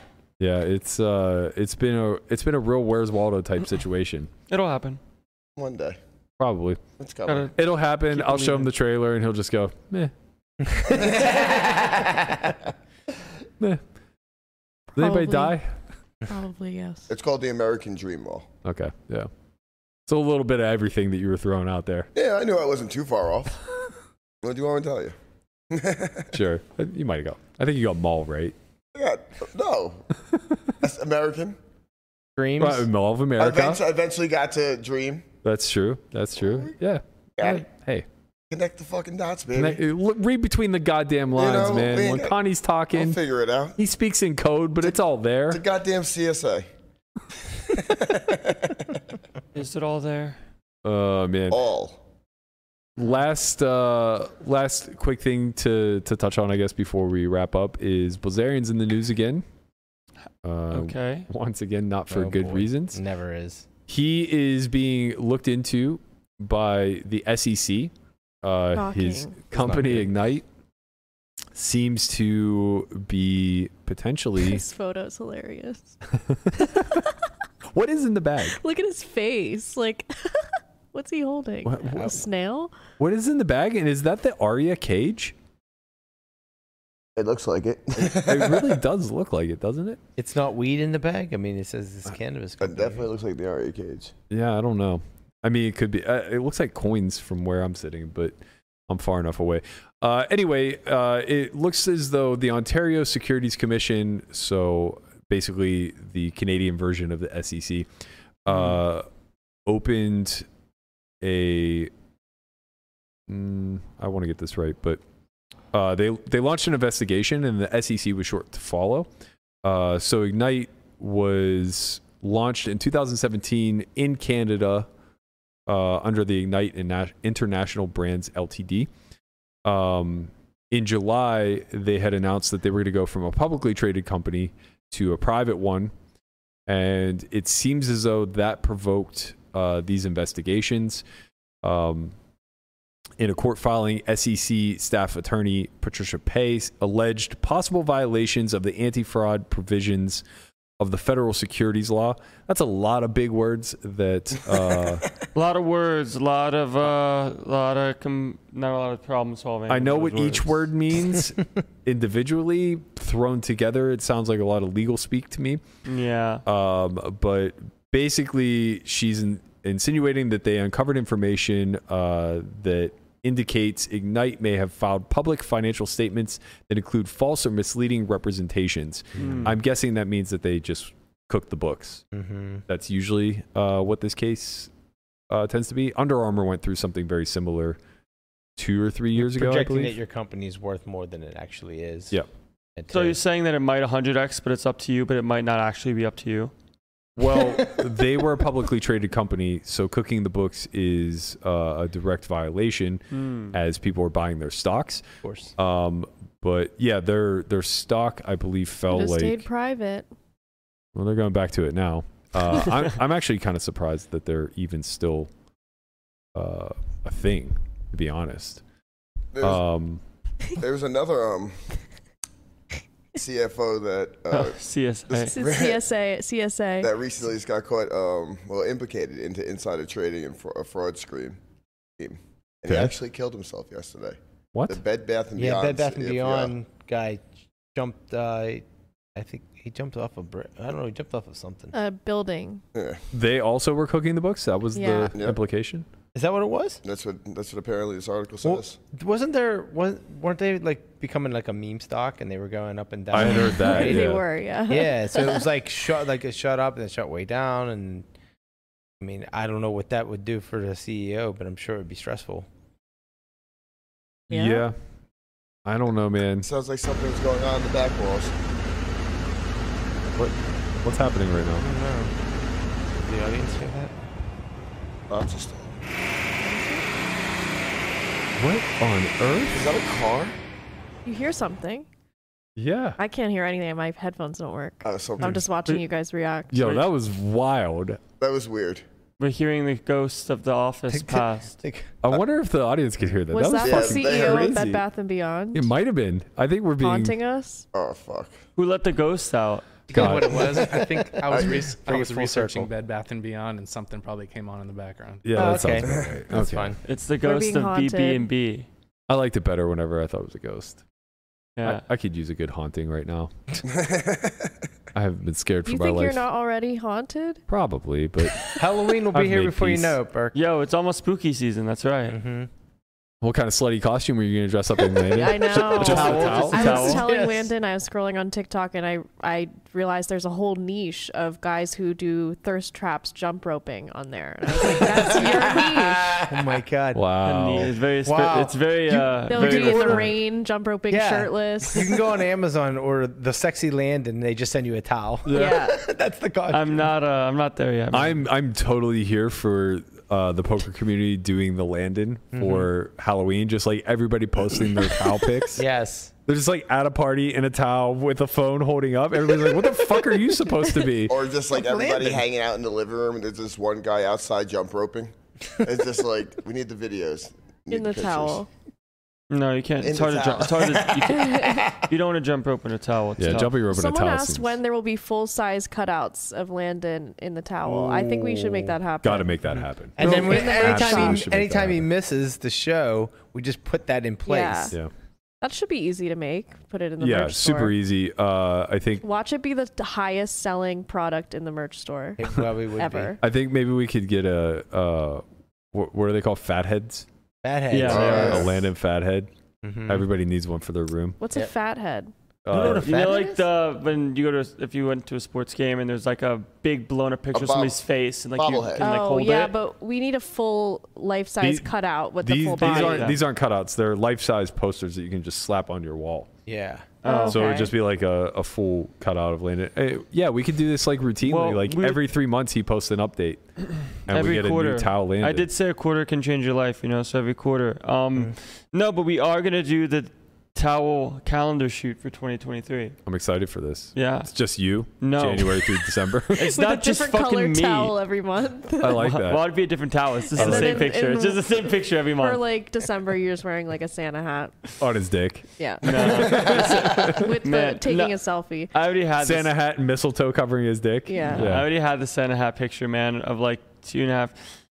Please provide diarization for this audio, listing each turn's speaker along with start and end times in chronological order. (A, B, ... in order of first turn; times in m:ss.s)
0:00.4-0:04.3 A
0:04.5-0:05.0 B
0:05.6-0:06.0 C
0:06.4-0:06.8 A
0:07.0-0:07.5 C
0:07.3-0:07.5 B
0:07.6-0:10.1 A
0:08.1-0:08.7 B
0:10.7-0:11.2 D
0:10.9-0:12.0 C
0:12.0-0:12.3 D
0:14.9-0:15.6 E
0:15.0-0:15.7 A
0:16.3-0:17.1 E
0:17.1-0:18.5 C
0:18.6-0:19.3 A
0:20.1-0:22.1 A
0:22.2-0:23.6 C
0:24.4-0:25.2 C
0:25.7-0:26.3 C
0:26.3-0:28.6 A
0:29.0-0:30.0 C
0:30.8-0:31.6 C
0:32.4-0:32.8 D
0:32.6-0:33.8 A
0:33.4-0:35.3 C
0:35.4-0:38.1 A
0:36.5-0:36.7 C
0:37.4-0:37.6 C
0:38.5-0:39.8 C
0:39.6-0:43.2 A
0:41.4-0:42.4 C
0:42.9-0:43.8 C
0:43.8-0:45.6 A
0:45.5-0:46.7 C
0:47.7-0:48.9 C
0:49.6-0:50.4 B
0:50.8-0:51.6 A
0:51.5-0:52.0 C
0:53.0-0:59.4 A
1:00.4-1:03.0 A
1:00.7-1:01.3 B
1:02.1-1:03.7 D
1:03.9-1:10.4 A
1:08.7-1:09.4 E
1:09.6-1:10.0 D
1:11.6-1:14.6 A
1:14.4-1:16.0 E
1:16.1-1:17.0 A
1:16.6-1:17.1 E
1:17.7-1:18.6 A
1:18.5-1:22.8 E
1:21.6-1:22.2 A
1:23.0-1:25.4 A
1:27.2-1:28.8 C
1:28.0-1:30.0 A
1:30.2-1:33.1 D
1:32.6-1:34.1 C
1:34.3-1:38.4 A
1:38.9-1:47.9 A
1:48.4-1:49.1 A
1:49.7-1:50.5 A
1:51.2-1:51.9 A
1:53.3-1:55.0 A
1:55.7-1:59.1 A
1:59.6-2:04.9 A
2:05.7-2:08.9 A
2:09.6-2:15.9 A
2:16.7-2:21.0 A
2:21.6-2:22.2 A
2:23.2-2:30.2 A
2:30.8-2:35.0 A
2:35.3-2:40.6 B
2:39.7-2:45.6 A
2:45.9-2:46.4 B
2:46.4-3:02.0 A
2:59.2-2:59.5 B
2:59.2-2:59.5 D
3:02.1-3:02.6 D
3:02.7-3:04.7 A
3:05.3-3:07.8 A
3:08.6-3:10.0 A
3:09.2-3:12.2 D
3:12.8-3:13.2 D
3:12.9-3:16.5 B
3:17.2-3:29.5 A
3:23.1-3:23.6 B
3:25.2-3:25.5 D
3:28.9-3:30.1 E
3:31.0-3:35.3 A
3:36.4-3:38.6 A
3:39.4-3:39.6 C
3:39.4-3:40.0 A
3:40.6-3:41.6 C
3:43.2-3:44.6 C
3:44.3-3:45.4 B
3:45.1-3:45.8 C
3:45.3-3:46.9 E
3:46.8-3:51.4 C
3:52.0-3:56.5 C
3:52.7-3:52.9 A
3:54.5-3:54.8 A
3:55.4-4:01.7 D
4:01.7-4:02.6 E
4:02.8-4:03.0 C
4:03.1-4:05.9 A
4:04.8-4:05.2 E
4:06.1-4:06.8 D
4:06.8-4:08.8 C
4:08.4-4:18.1 D
4:13.1-4:14.2 A
4:13.2-4:15.5 E
4:19.0-4:22.5 D
4:24.3-4:24.6 E
4:24.3-4:24.8 A
4:25.7-4:26.5 A
4:26.4-4:28.4 C
4:30.1-4:31.7 A
4:31.6-4:32.1 D
4:33.0-4:33.9 D
4:35.1-4:35.8 C
4:36.4-4:36.8 E
4:38.4-4:39.7 A
4:39.5-4:40.4 C
4:41.0-4:41.9 E
4:42.6-4:43.0 A
4:43.0-4:46.8 E
4:44.8-4:45.4 C
4:46.5-4:48.0 A
4:48.2-4:48.8 C
4:49.2-4:51.6 B
4:50.9-4:52.0 D
4:52.0-4:54.8 A
4:53.3-4:55.7 E
4:53.6-4:54.6 C
4:55.5-4:57.2 A
4:56.8-4:57.7 E
4:57.7-4:58.4 C
4:58.6-4:59.7 B
4:59.9-5:05.7 F
4:59.9-5:00.5 A
5:00.0-5:02.7 D
5:01.3-5:01.6 C
5:05.2-5:06.8 A
5:05.3-5:06.8 D
5:06.8-5:08.7 B
5:07.2-5:08.3 E
5:09.1-5:10.8 A
5:11.6-5:11.8 B
5:11.6-5:13.3 A
5:13.6-5:14.5 C
5:15.0-5:16.2 A
5:15.6-5:17.4 E
5:17.5-5:18.5 A
5:18.4-5:20.4 D
5:19.1-5:20.0 A
5:20.4-5:22.2 B
5:22.1-5:22.5 D
5:23.2-5:26.9 A
5:25.1-5:36.3 E
5:25.6-5:27.1 B
5:26.6-5:27.5 D
5:34.6-5:37.1 D
5:36.9-5:37.7 A
5:37.2-5:40.1 B
5:38.0-5:40.1 D
5:39.3-5:41.9 E
5:40.9-5:46.9 D
5:45.3-5:45.6 A
5:45.3-5:45.8 E
5:46.5-5:48.2 B
5:47.9-5:55.6 A
5:52.3-5:52.7 D
5:55.6-5:56.1 D
5:56.3-6:01.2 A
6:01.1-6:08.4 C
6:01.6-6:02.2 D
6:07.7-6:08.5 E
6:09.3-6:13.6 B
6:09.8-6:11.8 C
6:11.1-6:11.7 E
6:13.2-6:14.6 A
6:13.7-6:19.3 E
6:17.6-6:21.9 A
6:19.6-6:24.8 D
6:20.0-6:21.2 E
6:24.3-6:24.7 E
6:25.4-6:27.7 E
6:27.0-6:29.0 A
6:29.0-6:33.2 E
6:32.2-6:33.2 D
6:33.2-6:37.1 A
6:37.4-6:38.5 D
6:37.7-6:38.4 B
6:37.8-6:38.5 C
6:37.9-6:39.3 A
6:39.6-6:40.1 D
6:39.9-6:41.2 A
6:41.2-6:42.1 E
6:42.5-6:42.9 A
6:42.5-6:43.4 D
6:42.6-6:49.5 B
6:43.0-6:43.4 E
6:47.3-6:47.8 C
6:48.4-6:48.9 C
6:48.8-6:53.1 E
6:51.4-6:51.7 A
6:52.2-6:56.3 A
6:52.6-6:53.2 B
6:56.5-6:56.9 D
6:57.0-6:57.4 B
6:57.0-6:57.7 E
6:57.3-7:03.4 A
7:01.2-7:02.0 B
7:04.0-7:05.5 A
7:04.1-7:13.0 B
7:13.1-7:16.5 A
7:14.0-7:14.3 B
7:15.0-7:18.0 B
7:16.4-7:19.2 E
7:18.8-7:19.4 A
7:19.0-7:22.4 B
7:20.2-7:24.6 E
7:20.4-7:20.9 A
7:24.8-7:27.3 A
7:25.6-7:28.7 E
7:25.8-7:28.2 B
7:28.7-7:29.5 B
7:29.2-7:31.7 A
7:31.1-7:31.5 E
7:31.2-7:34.4 B